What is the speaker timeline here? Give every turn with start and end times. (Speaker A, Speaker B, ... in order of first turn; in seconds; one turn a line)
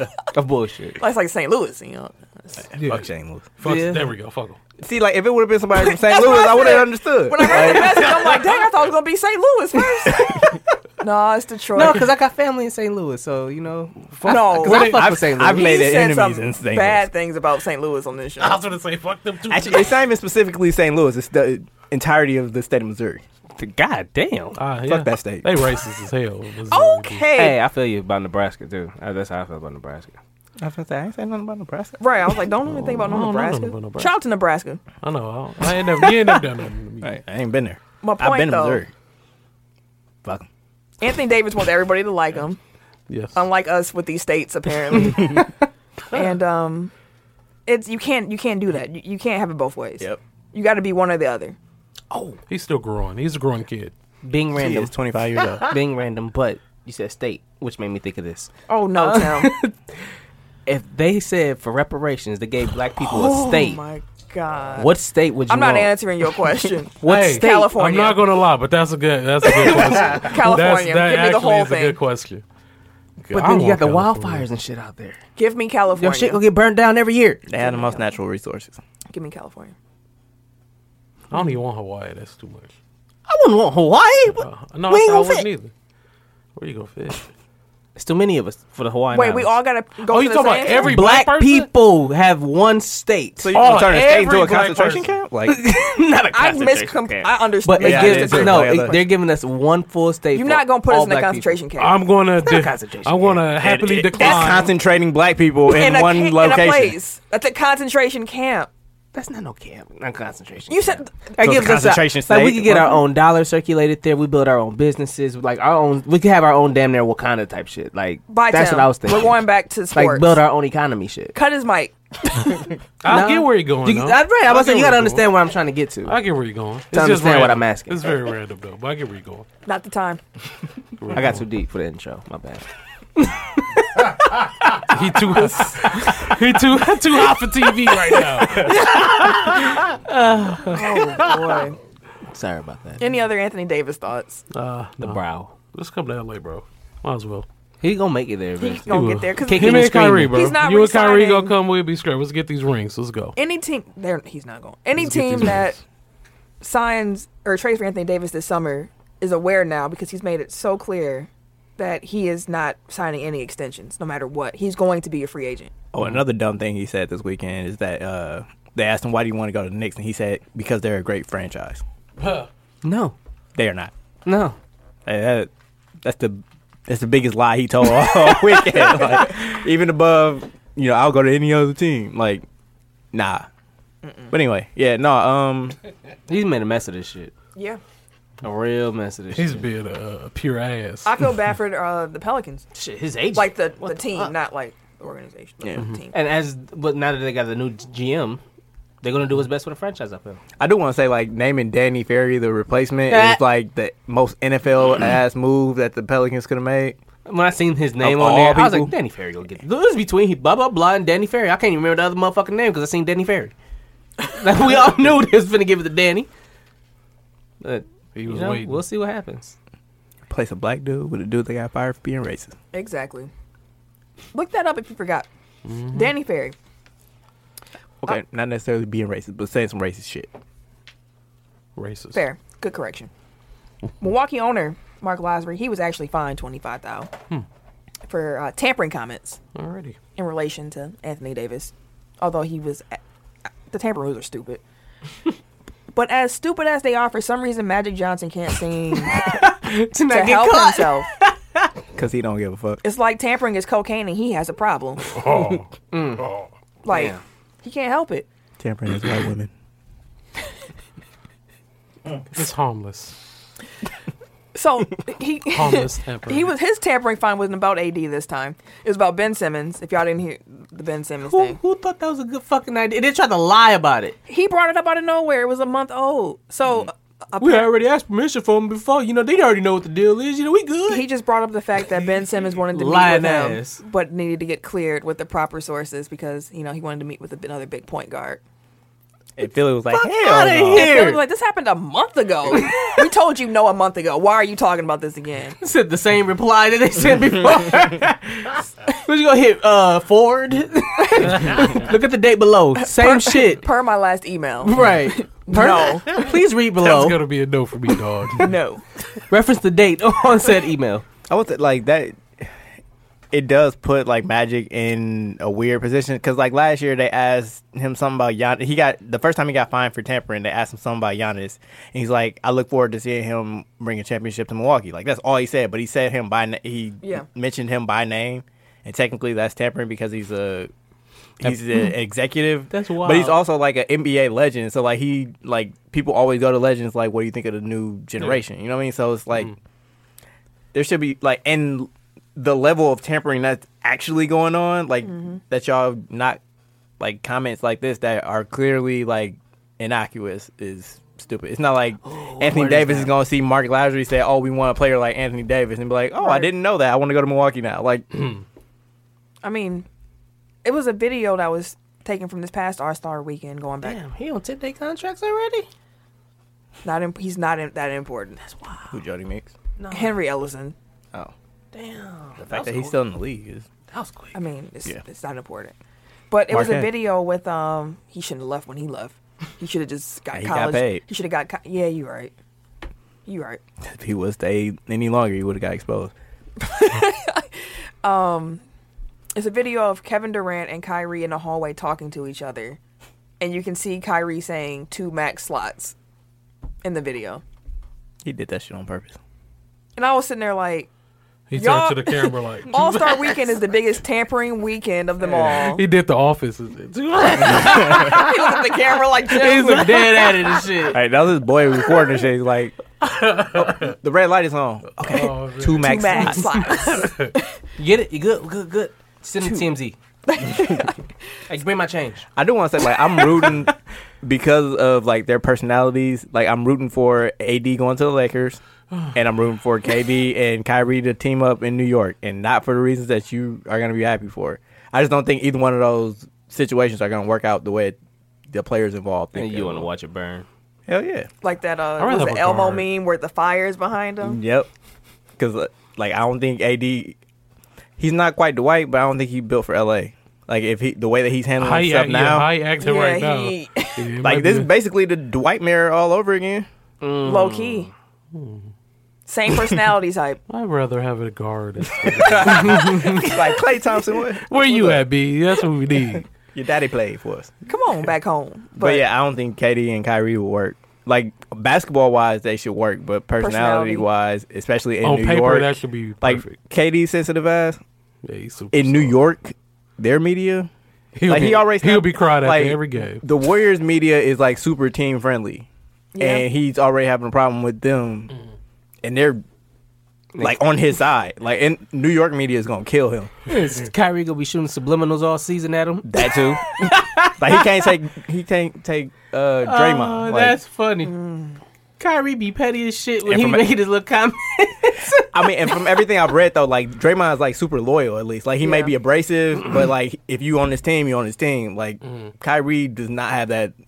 Speaker A: 0.3-1.0
Speaker B: 1.0-2.6
Speaker C: 2.7-4.6
Speaker D: 2.8-3.5
Speaker A: 3.6-4.1
Speaker D: 4.8-8.1
Speaker B: 5.9-12.1
Speaker C: 7.6-8.5
Speaker A: 11.8-15.8
Speaker C: 14.2-14.9
Speaker B: 14.2-18.6
Speaker D: 14.6-17.1
Speaker C: 18.4-19.9
Speaker D: 19.5-23.2
Speaker A: 23.6-24.6
Speaker C: 24.6-27.3
Speaker D: 24.9-25.5
Speaker B: 26.7-27.6
Speaker A: 27.4-30.2
Speaker D: 30.6-32.0
Speaker B: 32.0-34.8
Speaker C: 32.7-34.1
Speaker C: 35.0-37.2
Speaker D: 37.0-38.9
Speaker B: 38.0-38.8
Speaker B: 41.0-42.6
Speaker C: 43.1-43.4
Speaker B: 43.4-45.5
Speaker B: 46.1-46.9
Speaker B: 47.7-51.6
Speaker A: 52.1-52.4
Speaker C: 52.5-53.9
Speaker A: 54.2-54.9
Speaker D: 54.5-55.7
Speaker A: 55.7-60.0
Speaker B: 58.7-59.5
Speaker A: 60.7-63.8
Speaker B: 63.0-64.9
Speaker A: 64.8-65.9
Speaker B: 65.5-68.2
Speaker A: 67.0-67.8
Speaker C: 67.0-72.4
Speaker A: 69.6-70.3
Speaker B: 69.7-72.0
Speaker C: 73.2-74.5
Speaker A: 73.3-75.2
Speaker B: 75.4-76.4
Speaker A: 76.0-77.4
Speaker D: 77.5-78.8
Speaker B: 77.5-78.1
Speaker B: 79.1-79.8
Speaker C: 81.3-82.8
Speaker A: 83.3-85.5
Speaker C: 84.4-85.7
Speaker C: 86.6-87.3
Speaker A: 88.0-89.5
Speaker B: 89.1-91.0
Speaker C: 90.0-91.7
Speaker A: 90.8-93.5
Speaker D: 93.4-95.6
Speaker C: 93.5-95.1
Speaker A: 95.5-101.6
Speaker B: 96.3-99.1
Speaker D: 97.8-99.0
Speaker B: 100.3-102.0
Speaker C: 101.8-104.7
Speaker A: 102.4-103.5
Speaker D: 103.6-107.0
Speaker B: 105.7-108.7
Speaker A: 109.1-119.4
Speaker B: 110.7-111.3
Speaker D: 111.4-113.1
Speaker B: 118.3-120.4
Speaker A: 119.9-121.3
Speaker B: 121.3-122.7
Speaker C: 123.0-125.3
Speaker A: 123.1-126.2
Speaker C: 126.1-129.5
Speaker A: 126.9-128.0
Speaker B: 129.7-130.2
Speaker C: 131.0-131.4
Speaker A: 131.1-134.8
Speaker C: 134.8-138.9
Speaker B: 135.6-135.9
Speaker A: 135.8-136.3
Speaker A: 138.5-141.3
Speaker B: 140.7-141.8
Speaker A: 142.3-143.0
Speaker B: 143.0-144.4
Speaker C: 144.5-145.2
Speaker A: 145.0-145.5
Speaker C: 145.7-147.5
Speaker A: 147.8-150.4
Speaker B: 148.6-151.5
Speaker C: 148.9-153.4
Speaker B: 153.4-155.8
Speaker C: 155.0-155.6
Speaker B: 156.6-165.7
Speaker D: 165.9-171.8
Speaker C: 172.2-172.5
Speaker A: 172.8-173.2
Speaker D: 173.6-173.9
Speaker A: 174.3-174.6
Speaker D: 175.1-175.5
Speaker D: 176.0-182.4
Speaker D: 183.1-183.5
Speaker B: 184.0-184.3
Speaker D: 184.3-185.8
Speaker A: 186.3-187.3
Speaker A: 188.4-189.6
Speaker C: 189.3-191.2
Speaker B: 191.1-192.7
Speaker A: 192.8-194.3
Speaker B: 193.3-196.2
Speaker A: 196.1-198.4
Speaker A: 199.0-200.4
Speaker D: 200.6-207.0
Speaker A: 203.1-203.4
Speaker A: 207.3-213.5
Speaker D: 208.0-208.9
Speaker A: 214.3-216.3
Speaker A: 217.6-219.6
Speaker C: 218.2-218.8
Speaker D: 220.3-222.5
Speaker B: 222.7-223.3
Speaker B: 224.3-225.3
Speaker C: 225.7-226.1
Speaker B: 225.9-226.6
Speaker D: 228.0-230.3
Speaker C: 231.8-232.2
Speaker B: 232.1-233.1
Speaker B: 234.0-237.1
Speaker B: 238.1-239.4
Speaker C: 239.6-240.0
Speaker B: 240.2-243.0
Speaker B: 243.7-244.6
Speaker B: 245.9-249.5
Speaker A: 249.1-251.7
Speaker B: 250.1-251.1
Speaker D: 251.9-252.8
Speaker B: 252.8-255.1
Speaker C: 255.1-255.7
Speaker A: 255.9-256.3
Speaker B: 256.8-258.3
Speaker A: 256.9-257.2
Speaker D: 258.6-259.5
Speaker C: 262.3-263.2
Speaker B: 264.5-271.6
Speaker C: 265.5-266.5
Speaker A: 271.2-274.2
Speaker B: 274.3-277.7
Speaker A: 277.4-281.1
Speaker B: 280.9-288.4
Speaker A: 282.7-283.8
Speaker D: 289.4-291.0
Speaker A: 289.9-291.2
Speaker B: 290.7-295.6
Speaker A: 295.6-303.6
Speaker B: 301.4-301.7
Speaker B: 302.8-306.3
Speaker A: 304.6-307.2
Speaker C: 306.8-308.5
Speaker B: 308.4-308.9
Speaker A: 309.3-311.1
Speaker D: 311.3-312.5
Speaker D: 313.3-330.7
Speaker D: 331.4-339.5
Speaker A: 332.7-333.4
Speaker D: 340.7-346.4
Speaker B: 345.0-345.4
Speaker D: 347.0-358.1
Speaker A: 352.0-353.2
Speaker B: 356.2-356.5
Speaker B: 359.4-359.9
Speaker B: 360.6-364.0
Speaker A: 363.8-365.7
Speaker B: 366.8-368.5
Speaker A: 368.5-369.0
Speaker D: 368.9-369.5
Speaker A: 369.8-370.2
Speaker B: 369.9-370.8
Speaker A: 371.7-373.0
Speaker D: 372.4-373.7
Speaker A: 373.9-374.4
Speaker B: 374.3-375.8
Speaker B: 376.3-382.3
Speaker D: 376.5-376.9
Speaker D: 380.3-381.0
Speaker B: 383.3-383.6
Speaker D: 383.8-386.1
Speaker B: 386.6-388.6
Speaker B: 389.4-392.8
Speaker B: 393.4-395.9
Speaker B: 396.8-397.4
Speaker D: 398.2-399.2
Speaker B: 400.0-400.9
Speaker C: 401.5-403.5
Speaker B: 401.6-405.9
Speaker C: 405.3-408.3
Speaker B: 407.4-410.0
Speaker D: 407.5-408.2
Speaker A: 409.3-411.0
Speaker C: 409.3-410.5
Speaker D: 410.9-412.8
Speaker C: 413.0-413.9
Speaker D: 413.5-416.8
Speaker C: 415.0-417.3
Speaker B: 415.8-417.5
Speaker A: 417.8-420.0
Speaker B: 420.3-421.0
Speaker D: 420.4-420.9
Speaker A: 421.5-422.3
Speaker D: 422.4-428.6
Speaker D: 429.1-438.0
Speaker D: 438.5-439.9
Speaker A: 439.4-440.5
Speaker D: 440.9-441.3
Speaker B: 441.4-444.4
Speaker C: 442.0-442.9
Speaker D: 444.2-444.7
Speaker D: 445.4-447.2
Speaker D: 448.0-452.5
Speaker C: 451.6-454.7
Speaker B: 452.8-454.0
Speaker D: 454.2-456.7
Speaker A: 457.0-457.9
Speaker B: 457.2-457.9
Speaker C: 458.3-458.7
Speaker B: 459.3-460.4
Speaker C: 460.5-463.3
Speaker D: 462.1-465.1
Speaker A: 462.5-463.1
Speaker C: 464.5-466.3
Speaker D: 466.1-467.5
Speaker B: 467.7-469.1
Speaker D: 468.8-477.8
Speaker B: 473.4-474.1
Speaker C: 475.0-476.6
Speaker C: 478.2-479.2
Speaker D: 478.7-480.7
Speaker C: 481.1-483.2
Speaker D: 481.2-485.7
Speaker B: 486.1-486.4
Speaker D: 486.2-488.3
Speaker D: 489.0-489.4
Speaker A: 490.3-490.6
Speaker D: 490.4-493.3
Speaker A: 493.5-497.7
Speaker D: 496.0-500.6
Speaker A: 499.6-501.1
Speaker B: 501.0-501.6
Speaker A: 502.0-505.9
Speaker D: 503.3-503.7
Speaker D: 505.1-513.7
Speaker B: 508.6-508.9
Speaker C: 512.1-512.3